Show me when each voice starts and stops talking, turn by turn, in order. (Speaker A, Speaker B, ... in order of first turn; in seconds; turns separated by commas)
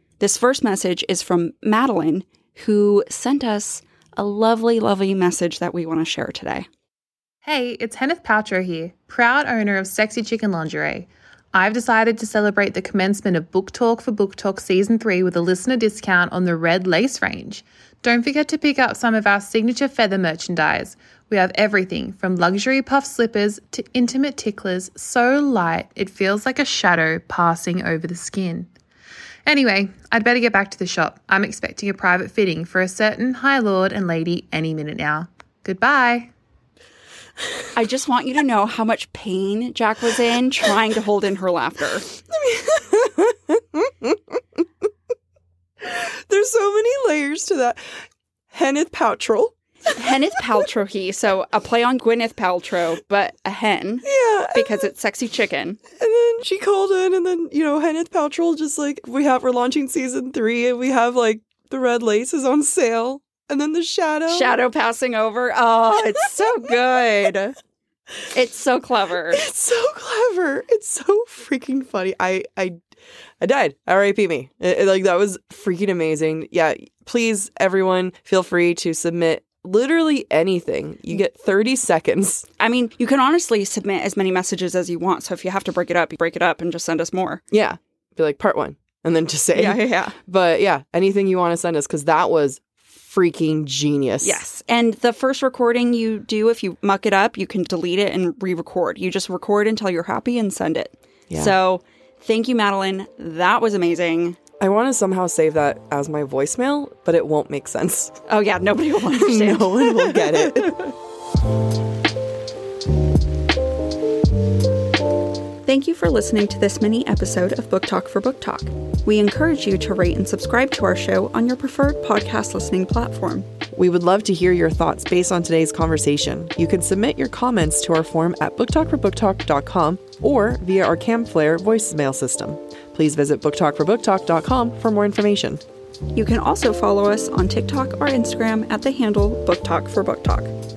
Speaker A: 0.2-6.7, Speaker B: 7.5-28.7, Speaker B: 29.5-36.3, Speaker A: 37.8-42.1, Speaker C: 42.3-44.4, Speaker C: 45.8-47.9, Speaker C: 48.5-50.5, Speaker A: 50.0-55.8, Speaker C: 54.0-54.9, Speaker C: 56.0-64.5, Speaker A: 64.3-67.6, Speaker A: 68.3-69.4, Speaker C: 69.3-72.8, Speaker C: 73.4-82.5, Speaker A: 82.6-87.4, Speaker C: 87.5-94.4, Speaker A: 89.5-90.2, Speaker A: 94.2-104.4, Speaker C: 104.6-108.2, Speaker A: 108.3-110.9, Speaker C: 109.1-110.8, Speaker A: 115.7-123.5, Speaker C: 123.7-135.6, Speaker A: 136.1-140.5